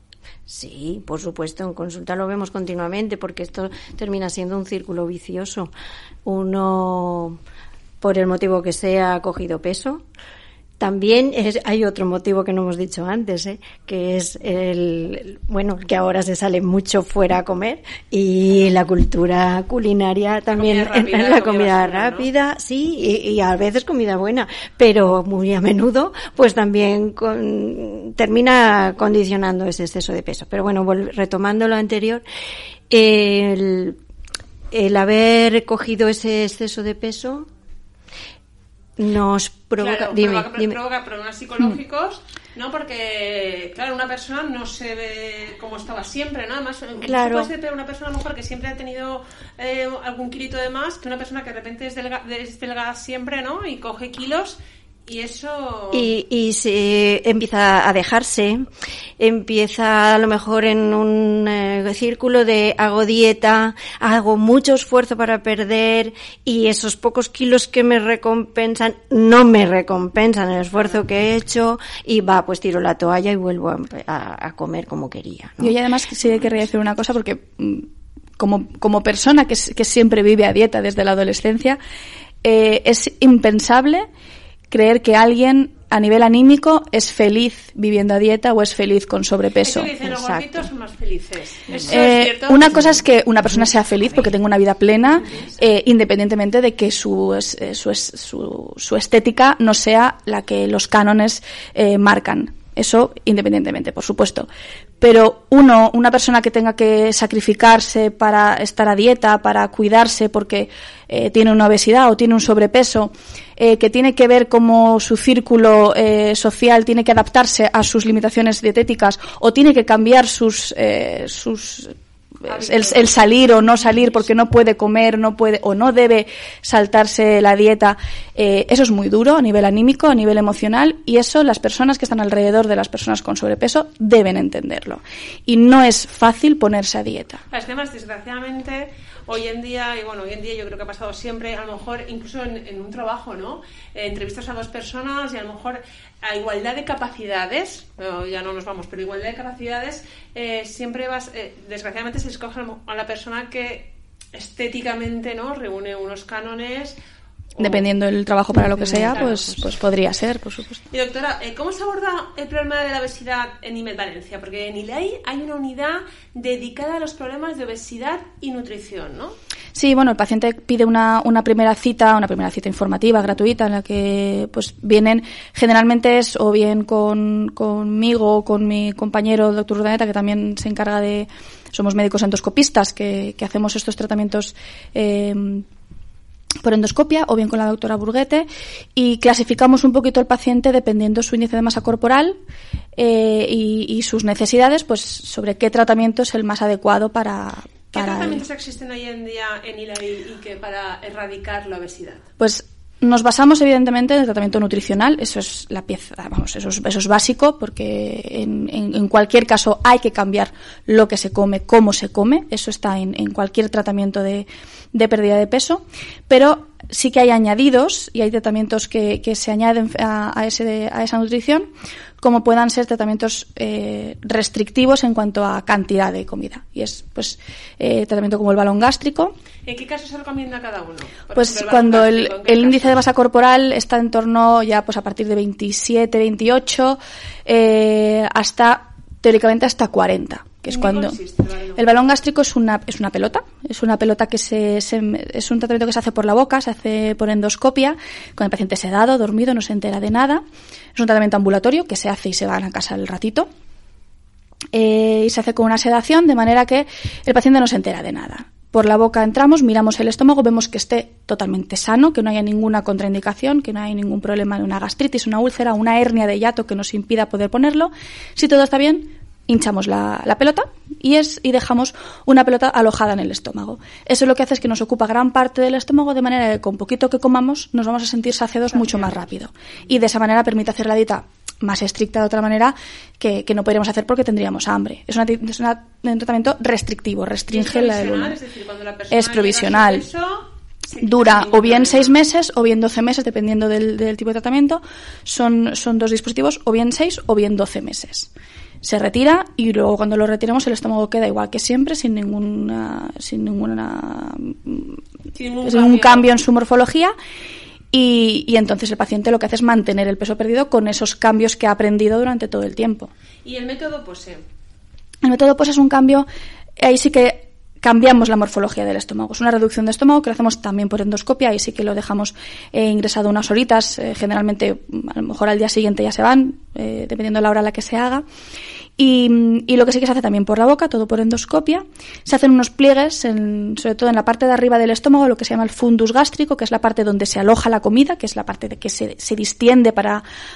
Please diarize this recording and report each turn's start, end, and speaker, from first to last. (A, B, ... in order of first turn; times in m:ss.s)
0:00.5-0:05.7 A
0:06.2-0:07.4 A
0:08.0-0:10.0 A
0:10.8-0:32.2 A
0:20.5-0:22.3 B
0:32.9-0:34.0 A
0:34.7-0:37.5 A
0:39.0-0:40.8 A
0:39.8-0:56.1 B
0:47.0-0:47.5 A
0:55.9-0:58.7 A
0:59.2-1:15.8 A
1:15.6-1:21.8 C
1:22.4-1:24.1 C
1:24.7-1:30.7 C
1:29.6-1:33.0 B
1:31.9-1:44.5 C
1:45.0-2:17.4 C
2:02.5-2:04.3 B
2:17.5-2:37.0 B
2:37.5-2:37.9 B
2:37.6-2:40.8 C
2:38.6-2:39.5 A
2:40.9-2:49.3 B
2:49.7-3:05.7 C
3:06.6-3:12.4 C
3:13.0-3:18.4 C
3:17.9-3:22.2 B
3:22.4-3:41.7 C
3:42.2-3:49.3 C
3:49.7-3:53.0 B
3:51.3-4:01.2 C
4:00.7-4:01.9 B
4:01.8-4:10.4 C
4:11.0-4:13.5 C
4:14.7-4:48.4 C
4:38.7-4:39.2 B
4:47.5-4:52.2 B
4:49.1-4:50.1 C
4:51.0-4:58.3 C
4:58.8-5:05.0 C
5:05.3-5:06.3 B
5:05.6-5:07.2 C
5:07.9-5:13.1 C
5:13.4-5:14.4 B
5:15.2-5:16.3 C
5:16.8-5:28.2 C
5:29.0-5:40.2 C